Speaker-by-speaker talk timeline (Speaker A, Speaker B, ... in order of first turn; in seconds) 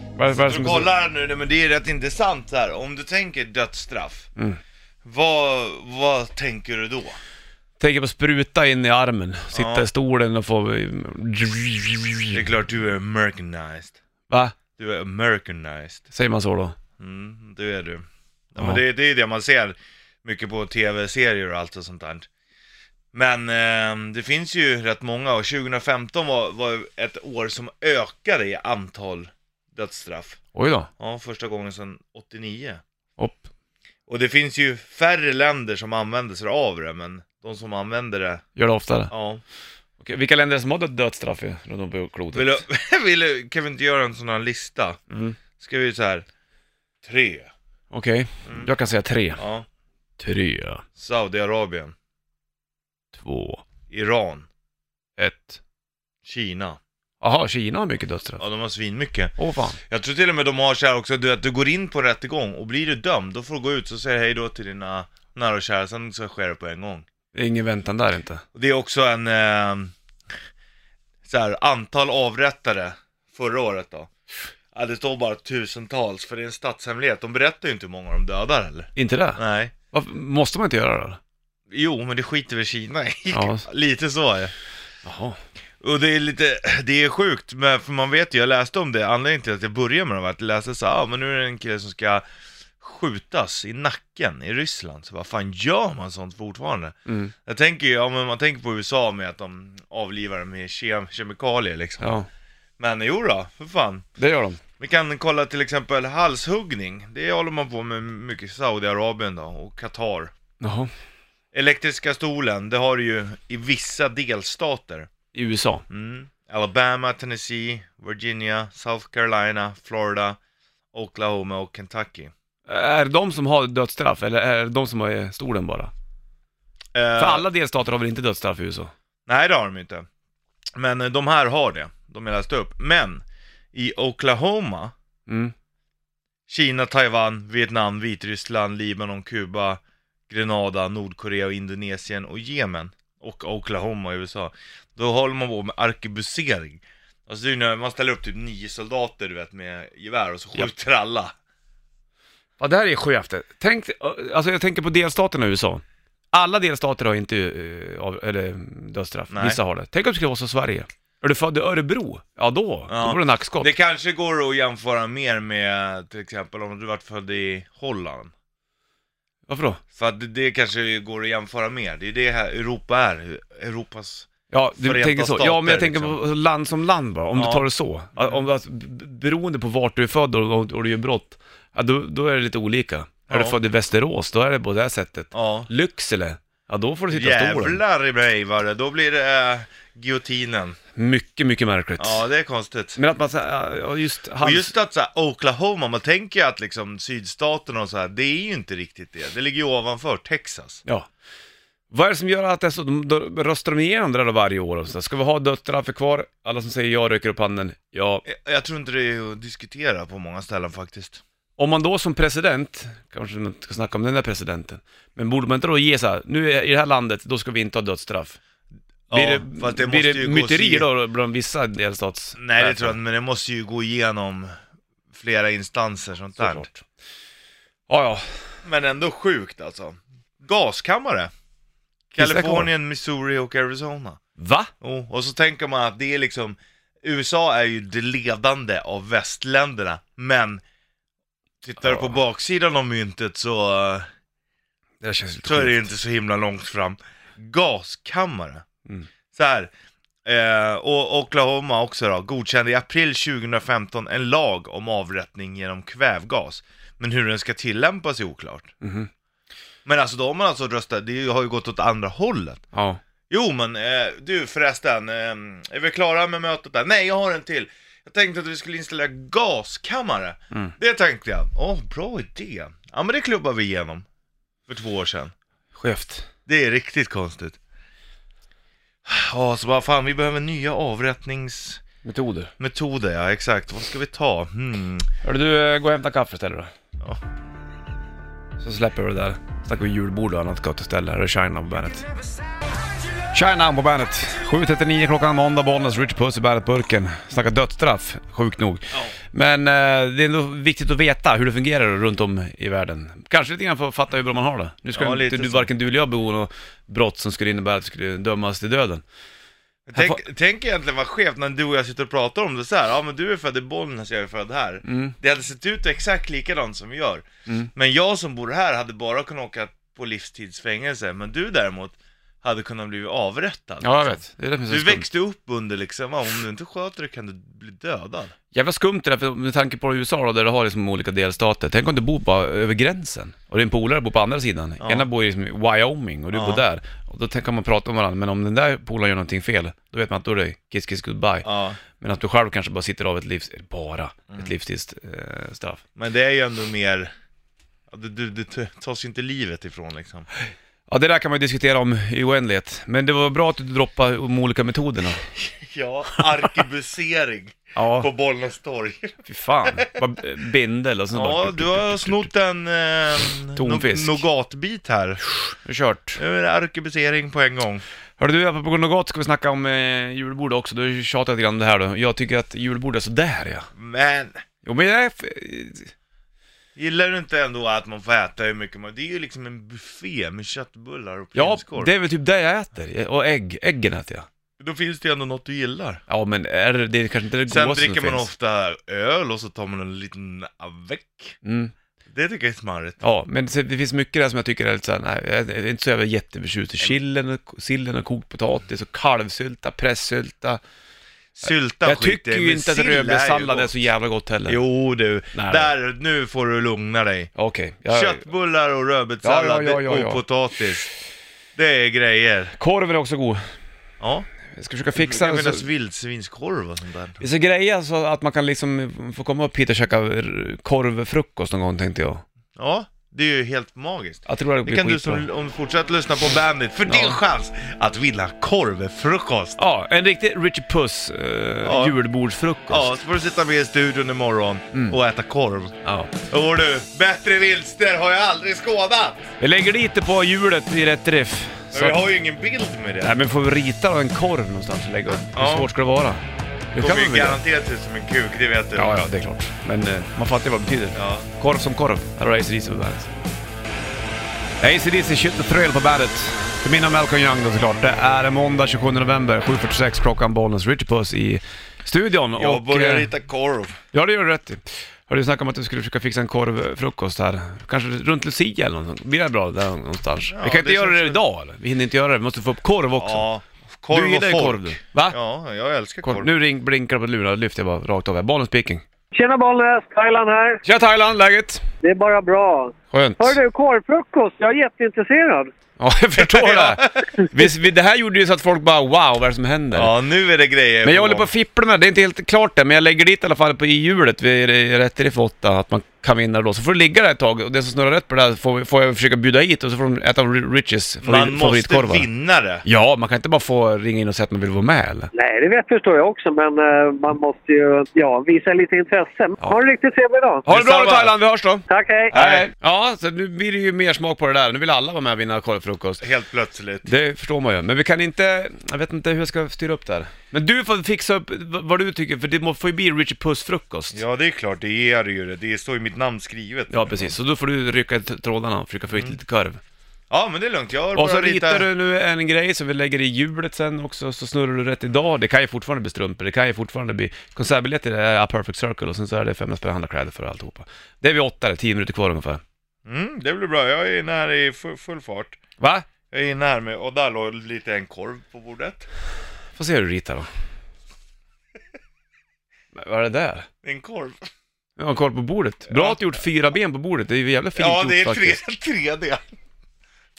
Speaker A: 0.2-0.9, 7.8-12.4, 14.3-14.6, 16.1-16.7, 30.5-30.9, 33.2-33.5, 38.5-39.1, 40.0-42.6, 45.1-45.4, 47.9-49.4, 50.2-50.8, 53.1-53.6, 55.2-55.6, 57.2-58.4, 59.4-59.8, 67.3-68.4, 79.0-79.4, 79.9-81.2, 83.3-83.6, 85.0-85.4, 97.1-97.3, 102.0-102.3, 104.2-104.6, 110.6-110.9, 115.3-115.8, 122.7-125.9, 127.2-128.9, 135.3-135.5, 152.6-163.7, 169.5-169.8, 174.5-187.8, 190.9-192.2, 193.0-194.7, 201.9-208.2, 211.6-218.4, 219.1-223.0, 226.4-226.8, 227.9-228.2, 232.2-232.7, 234.4-234.7, 241.8-242.1, 245.0-245.8, 258.8-259.1, 262.7-263.0, 275.7-276.3, 282.0-282.5, 285.2-286.7, 288.6-292.1, 293.3-309.0, 309.9-310.2, 314.8-315.1, 323.8-325.1, 328.5-341.5, 342.0-345.8, 350.9-355.2, 357.7-358.1, 359.2-362.3, 363.5-364.2, 365.6-366.2, 368.2-373.7, 374.6-375.9, 381.3-384.3, 386.1-388.3, 391.4-391.7, 393.0-400.6, 401.8-404.6, 405.3-405.7, 407.4-408.2, 409.2-410.2, 412.6-413.4, 414.5-415.6, 417.2-422.2, 424.3-425.2, 426.9-427.2, 429.6-432.9, 435.8-436.1, 439.4-442.1, 443.0-446.2, 446.7-447.4, 448.8-453.1, 454.6-463.1, 463.9-473.2, 473.9-475.1, 476.0-478.8, 480.6-481.6, 482.9-483.4, 485.8-489.9, 490.8-502.1, 502.6-505.1, 510.5-516.0, 516.9-524.0, 526.7-529.6, 530.9-542.4, 545.6-545.9, 549.5-550.3, 552.7-553.5, 554.8-558.4
Speaker B: 0.3-4.3, 5.0-7.2, 9.5-9.9, 12.3-14.0, 14.8-16.0, 17.0-18.0, 18.5-22.3, 23.1-30.4, 31.0-32.8, 34.1-38.4, 39.1-39.4, 42.3-45.0, 45.6-46.2, 47.0-47.5, 49.4-49.6, 51.0-51.9, 53.9-54.5, 56.2-56.8, 58.4-59.3, 59.9-67.0, 68.5-69.9, 71.2-74.1, 74.7-79.7, 81.7-84.5, 85.8-92.2, 92.8-102.2, 102.8-104.0, 104.8-110.3, 111.5-115.1, 115.9-120.4, 120.9-122.3, 126.9-127.5, 129.3-130.1, 130.8-134.9, 136.5-151.3, 159.3-159.6, 162.9-168.3, 169.9-176.2, 177.3-178.4, 183.3-183.6, 185.3-185.7, 187.1-190.8, 192.0-193.0, 194.4-200.8, 208.2-211.2, 219.1-220.9, 222.4-224.5, 225.1-226.7, 228.6-231.3, 232.1-234.2, 234.8-240.6, 241.6-244.1, 245.4-248.6, 249.3-249.7, 250.2-258.7, 259.8-262.6, 263.3-274.0, 274.7-275.3, 276.4-277.6, 279.0-281.8, 282.6-285.1, 304.9-305.7, 309.9-328.3, 334.8-335.1, 336.3-336.6, 341.4-341.8, 345.9-347.1, 347.9-350.2, 355.6-359.9, 361.1-365.2, 366.2-367.8, 373.8-374.4, 376.8-381.9, 384.6-386.0, 387.5-391.4, 392.1-393.0, 401.4-403.7, 404.5-407.3, 407.9-410.9, 411.5-412.5, 414.0-414.3, 414.9-417.2, 422.6-429.6, 431.6-432.0, 432.7-439.3, 441.7-443.2, 445.2-445.7, 446.8-448.9, 450.9-451.3, 462.4-463.8, 470.2-471.2, 473.0-476.3, 486.2-486.9, 489.7-491.3, 501.0-502.6, 510.5-511.2, 512.1-512.5, 516.0-516.9, 523.9-527.1, 530.1-531.7, 542.9-545.4, 546.1-548.9, 553.6-554.2, 555.7-556.1, 557.5-559.2
Speaker C: 479.1-480.6, 481.8-485.5, 505.1-510.4, 511.7-512.1